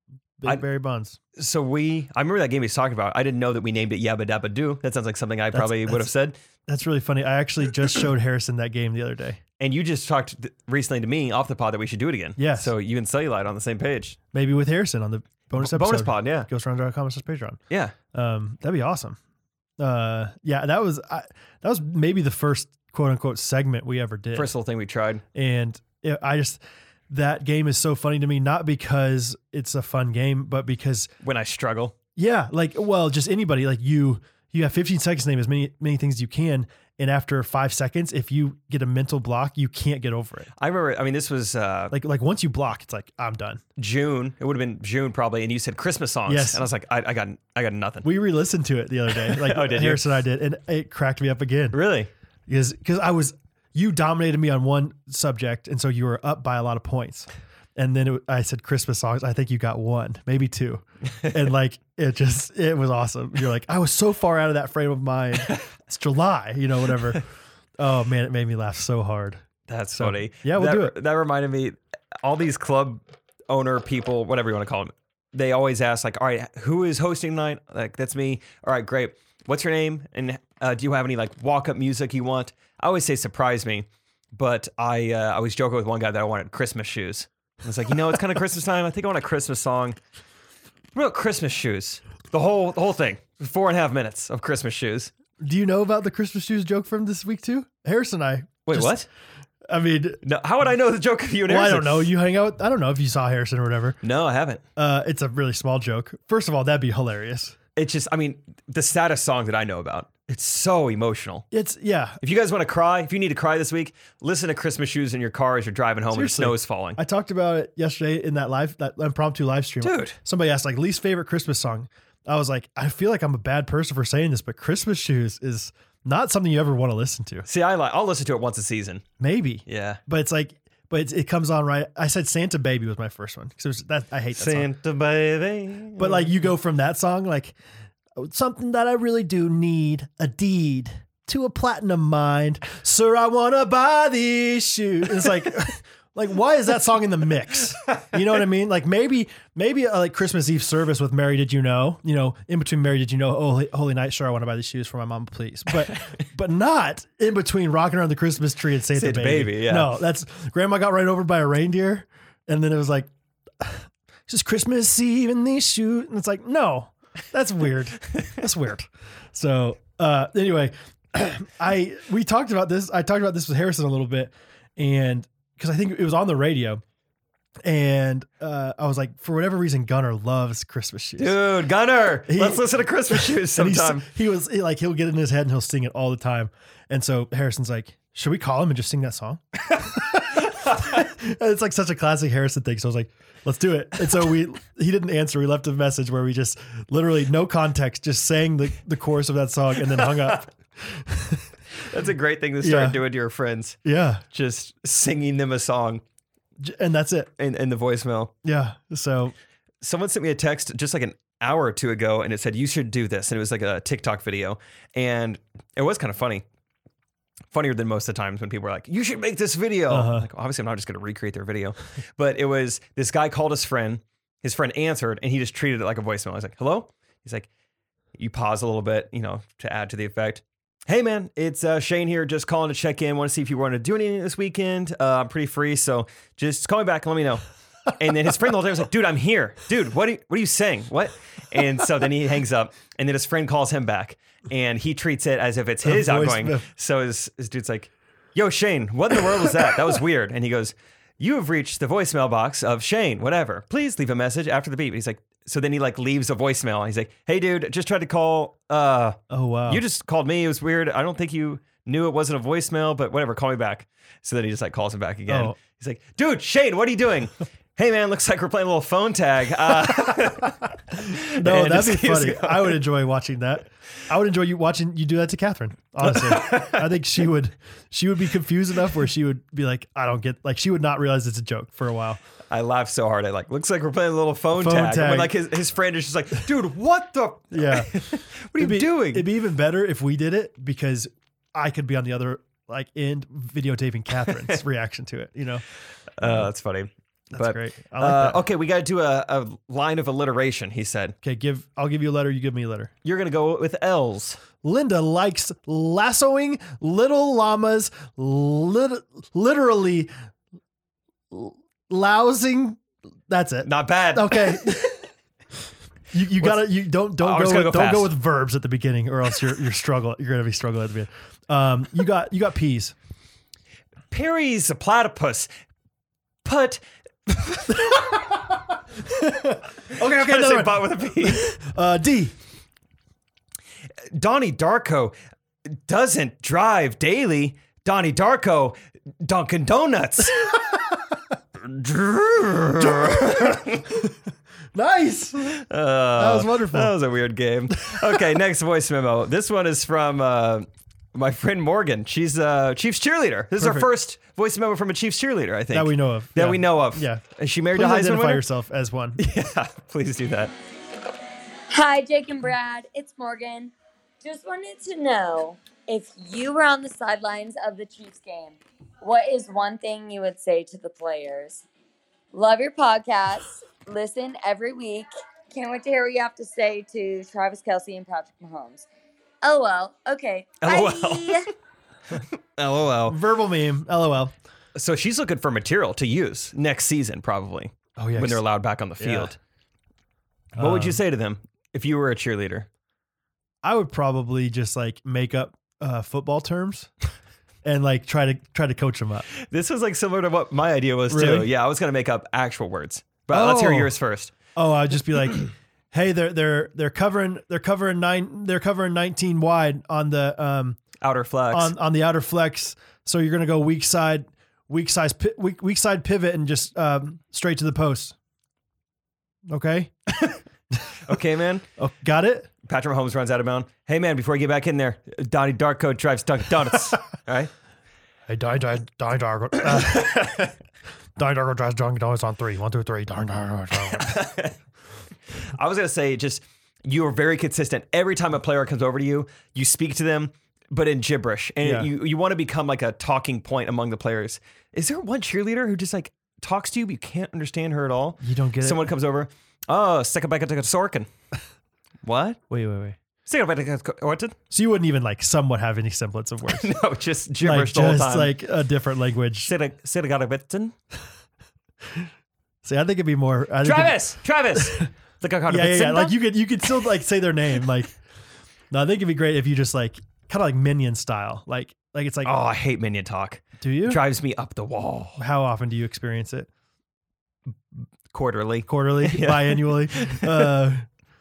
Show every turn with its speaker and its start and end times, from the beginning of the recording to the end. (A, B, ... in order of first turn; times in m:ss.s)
0:00.4-0:01.2 A
0:01.4-0:06.4 B
0:05.5-0:06.1 A
0:06.7-0:09.4 A
0:09.6-0:14.2 B
0:12.4-0:12.7 A
0:14.3-0:17.6 A
0:15.6-0:16.5 B
0:17.7-0:18.0 B
0:18.1-0:19.2 A
0:19.8-0:24.5 A
0:24.3-0:25.2 B
0:25.3-0:31.1 A
0:31.2-0:32.0 B
0:32.2-0:40.5 A
0:40.6-0:41.9 B
0:41.9-0:43.6 A
0:43.8-0:48.1 B
0:46.3-0:46.6 A
0:48.0-0:51.8 A
0:49.2-0:50.2 B
0:51.7-0:52.1 B
0:52.5-1:07.2 A
1:07.8-1:09.4 A
1:09.7-1:30.0 B
1:10.0-1:11.0 A
1:31.0-1:35.1 B
1:35.4-1:39.0 A
1:38.7-1:39.1 B
1:39.7-1:40.2 A
1:40.2-1:42.1 B
1:41.5-1:44.0 A
1:44.0-1:44.6 B
1:44.8-1:47.6 A
1:47.8-1:51.5 B
1:51.5-1:52.2 A
1:52.2-1:57.0 B
1:56.1-2:07.5 A
1:59.8-2:00.2 B
2:07.5-2:09.0 B
2:09.2-2:14.7 A
2:09.7-2:10.0 B
2:14.3-2:16.5 B
2:16.0-2:17.6 A
2:18.2-2:43.1 A
2:38.9-2:39.9 B
2:43.6-2:56.8 A
2:57.6-3:01.4 A
3:01.2-3:04.1 B
3:02.3-3:21.5 A
3:10.6-3:10.9 B
3:19.8-3:20.4 B
3:21.8-3:23.8 B
3:22.6-3:23.0 A
3:23.8-3:24.2 A
3:24.3-3:26.0 B
3:26.6-3:27.3 A
3:27.4-3:28.3 B
3:28.4-3:29.4 A
3:29.8-3:36.4 B
3:37.5-3:47.5 B
3:39.9-3:40.3 A
3:48.2-3:57.4 B
3:57.9-4:32.8 B
4:05.8-4:06.7 A
4:19.3-4:19.8 A
4:25.3-4:25.6 A
4:31.1-4:42.2 A
4:36.0-4:37.0 B
4:42.5-4:49.3 B
4:44.5-4:45.3 A
4:47.5-4:55.6 A
4:54.3-4:54.6 B
4:56.2-5:01.2 B
4:56.2-4:56.5 A
4:57.3-4:58.4 A
5:01.2-5:02.9 A
5:03.0-5:04.4 B
5:04.6-5:10.1 A
5:11.3-5:15.0 A
5:13.6-5:14.7 B
5:16.1-5:23.0 A
5:16.4-5:18.1 B
5:24.1-5:25.5 B
5:26.4-5:27.9 B
5:27.7-5:32.3 A
5:29.9-5:31.5 B
5:34.1-5:40.5 B
5:40.5-5:40.8 A
5:41.6-5:44.0 B
5:42.8-5:44.1 A
5:44.7-5:45.6 A
5:45.5-5:58.4 B
5:46.2-5:46.9 A
5:47.7-5:48.1 A
5:53.6-5:53.9 A
5:55.7-5:59.2 A
5:59.2-6:00.5 B
6:01.7-6:11.7 C
6:12.3-6:18.9 C
6:19.4-6:21.5 C
6:20.6-6:21.4 B
6:22.6-6:23.2 B
6:23.1-6:24.3 A
6:24.8-6:29.4 B
6:28.0-6:28.4 A
6:29.0-6:29.3 A
6:30.6-6:31.0 A
6:30.6-6:32.7 B
6:33.6-6:36.9 A
6:37.6-6:39.3 A
6:39.4-6:44.3 B
6:41.1-6:41.5 A
6:43.3-6:44.0 A
6:44.6-6:50.8 A
6:51.0-6:51.7 B
6:51.5-6:58.2 A
6:59.5-7:00.0 A
7:01.1-7:01.6 B
7:01.8-7:02.5 A
7:02.6-7:07.5 B
7:08.3-7:10.5 A
7:09.7-7:10.4 B
7:11.2-7:14.2 A
7:13.7-7:14.6 B
7:15.4-7:31.1 B
7:21.6-7:21.9 A
7:28.2-7:28.9 A
7:32.0-7:32.4 B
7:32.5-7:33.0 A
7:33.3-7:34.4 B
7:34.5-7:36.7 A
7:36.5-7:38.4 B
7:37.4-7:39.5 A
7:39.4-7:40.8 B
7:42.6-7:44.0 A
7:43.6-7:46.2 B
7:44.6-7:44.9 A
7:45.5-7:48.0 A
7:48.7-7:52.3 A
7:52.2-7:55.2 B
7:53.6-7:54.0 A
7:55.2-7:56.5 A
7:58.1-8:00.5 B
7:58.7-8:00.9 A